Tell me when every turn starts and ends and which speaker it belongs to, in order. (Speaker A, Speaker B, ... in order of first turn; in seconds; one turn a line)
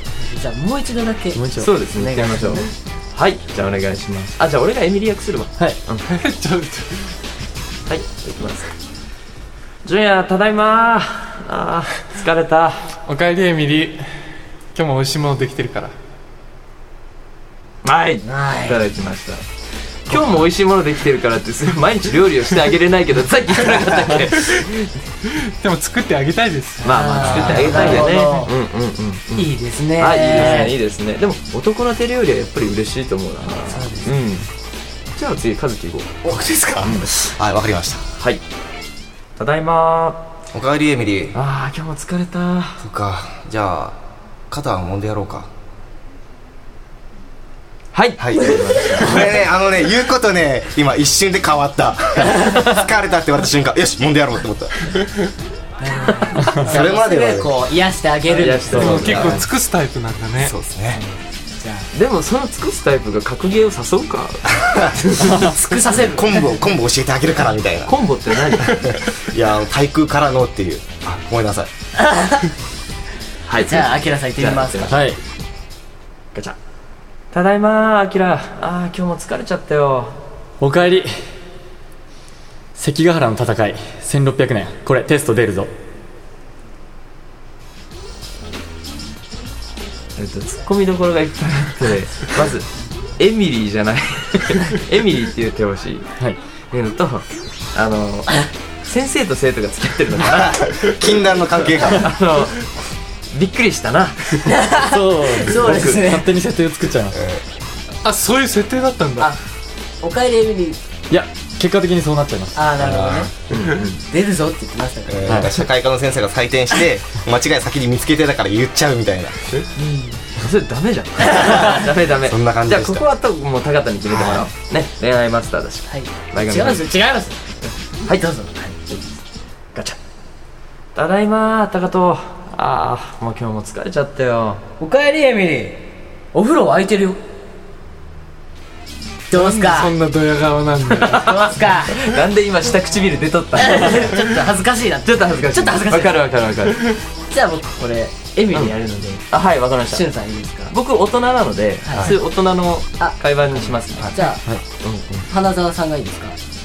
Speaker A: 0.2-2.7
Speaker B: 1.3-1.7
Speaker C: 1.6-6.1
Speaker D: 6.1-7.1
Speaker C: 7.9-8.8
Speaker C: 9.8-12.9
Speaker D: 13.1-14.1
Speaker D: 14.8-15.9
Speaker C: 17.8-19.4
Speaker A: 18.3-18.8
Speaker C: 20.1-24.9
Speaker D: 25.2-27.8
Speaker A: 26.8-28.5
Speaker C: 26.8-34.5
Speaker E: 27.2-27.7
Speaker A: 29.4-30.8
Speaker A: 33.6-34.2
Speaker C: 35.1-36.2
Speaker A: 36.2-37.1
Speaker E: 36.3-38.0
Speaker C: 36.8-37.1
Speaker C: 39.4-40.2
Speaker E: 40.5-41.4
Speaker C: 41.3-42.8
Speaker E: 42.8-44.0
Speaker E: 44.5-45.5
Speaker C: 47.9-49.3
Speaker E: 48.2-54.9
Speaker A: 48.5-49.3
Speaker A: 55.8-59.3
Speaker C: 56.2-56.5
Speaker E: 56.5-57.5
Speaker C: 58.3-59.3
Speaker B: 58.7-59.5
Speaker E: 58.7-59.4
Speaker D: 58.8-60.5
Speaker E: 60.4-61.0
Speaker A: 60.9-61.9
Speaker C: 61.9-65.6
Speaker A: 65.3-66.6
Speaker E: 66.1-67.9
Speaker C: 67.9-68.8
Speaker E: 68.5-71.7
Speaker A: 72.0-72.5
Speaker C: 73.5-75.1
Speaker A: 73.7-75.0
Speaker B: 74.9-75.2
Speaker C: 77.3-80.2
Speaker B: 80.6-81.1
Speaker B: 82.8-85.7
Speaker C: 90.2-96.1
Speaker C: 96.7-100.8
Speaker E: 100.2-102.1
Speaker C: 101.8-102.7
Speaker C: 103.3-104.5
Speaker A: 104.4-106.3
Speaker B: 104.9-107.2
Speaker C: 105.5-106.0
Speaker E: 107.1-107.4
Speaker D: 108.0-109.3
Speaker A: 110.0-110.8
Speaker B: 111.1-112.7
Speaker A: 112.5-113.3
Speaker E: 112.8-113.3
Speaker C: 113.5-114.0
Speaker A: 114.1-115.4
Speaker E: 115.1-119.4
Speaker B: 115.3-115.6
Speaker A: 119.8-120.2
Speaker C: 120.3-126.9
Speaker E: 122.2-123.1
Speaker E: 124.1-124.4
Speaker A: 125.9-127.4
Speaker A: 128.1-129.0
Speaker C: 130.9-134.6
Speaker A: 134.8-137.2
Speaker A: 139.3-139.9
Speaker D: 139.3-141.3
Speaker C: 141.1-144.2
Speaker A: 141.1-142.2
Speaker A: 143.6-146.2
Speaker C: 145.0-146.9
Speaker A: 147.3-149.2
Speaker C: 149.3-150.1
Speaker A: 149.9-150.7
Speaker C: 150.7-154.1
Speaker A: 151.8-152.2
Speaker A: 153.0-154.6
Speaker E: 154.0-154.2
Speaker C: 154.8-155.3
Speaker A: 155.3-156.4